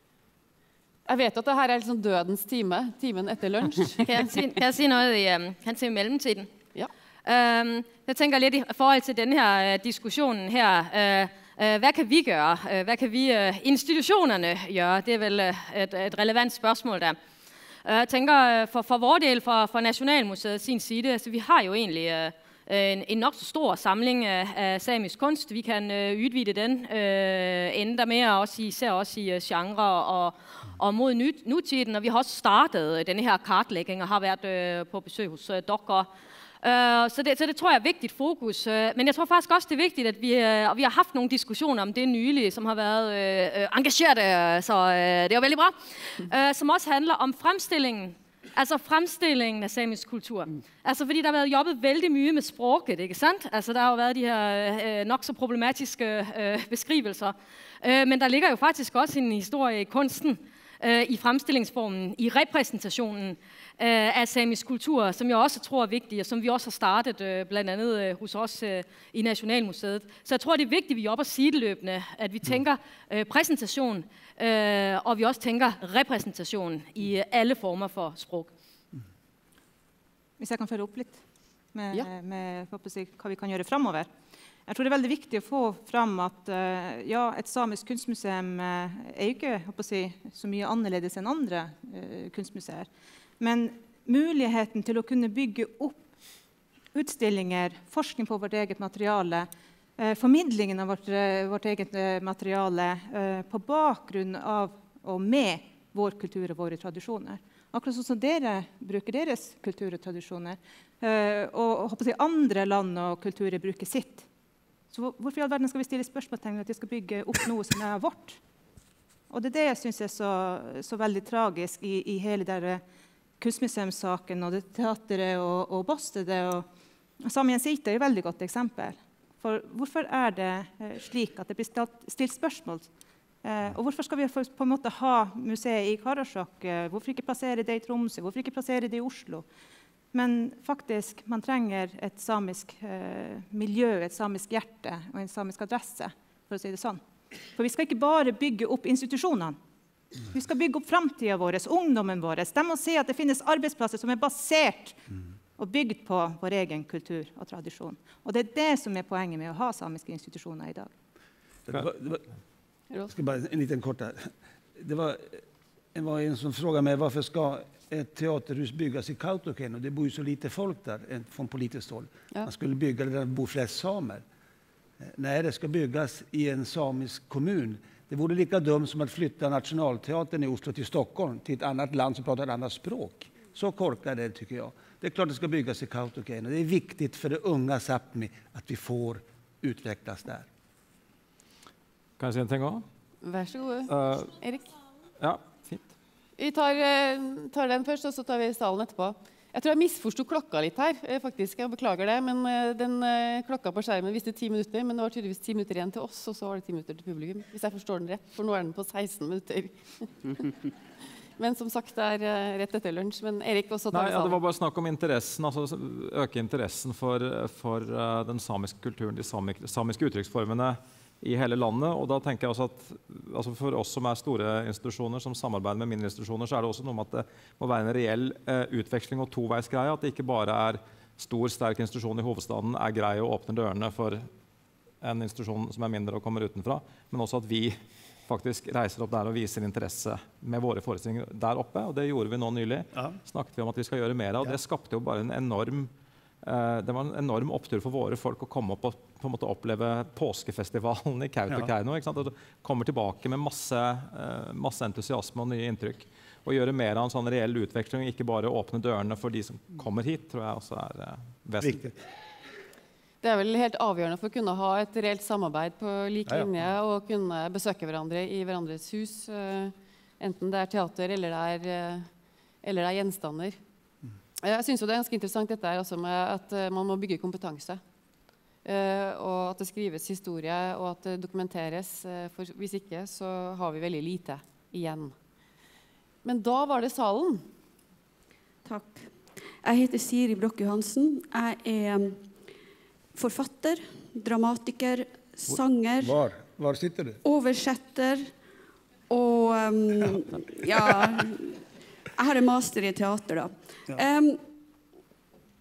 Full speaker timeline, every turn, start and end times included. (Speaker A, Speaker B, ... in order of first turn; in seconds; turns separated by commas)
Speaker A: 1.1-4.3, Speaker B: 4.0-6.5, Speaker B: 7.2-17.2, Speaker B: 17.8-36.1, Speaker B: 36.6-78.5, Speaker C: 80.4-81.2, Speaker C: 81.7-84.1, Speaker C: 84.7-92.9, Speaker C: 93.4-96.1, Speaker C: 96.9-114.3, Speaker C: 114.9-118.4, Speaker C: 119.3-122.8, Speaker C: 123.4-126.7, Speaker C: 127.2-132.9, Speaker C: 133.4-139.5, Speaker C: 140.1-147.0, Speaker C: 147.6-149.6, Speaker C: 150.3-155.0, Speaker C: 155.6-160.9, Speaker D: 161.7-162.2, Speaker D: 163.1-165.4, Speaker D: 165.9-174.2, Speaker D: 175.0-190.5, Speaker E: 192.2-192.8, Speaker A: 193.2-194.7, Speaker E: 193.9-194.3, Speaker E: 195.2-195.8, Speaker A: 196.4-210.4, Speaker A: 211.4-214.4, Speaker E: 213.9-234.3, Speaker E: 235.0-245.9, Speaker D: 242.9-243.2, Speaker E: 246.4-261.9, Speaker D: 261.6-261.9, Speaker A: 263.2-272.1, Speaker A: 272.6-273.6, Speaker A: 274.4-277.8, Speaker A: 278.6-285.1, Speaker A: 286.2-287.4, Speaker F: 288.6-289.1, Speaker F: 289.6-292.2, Speaker F: 293.1-296.2, Speaker D: 295.5-297.2, Speaker F: 297.2-298.3, Speaker F: 299.1-301.6, Speaker F: 302.2-304.4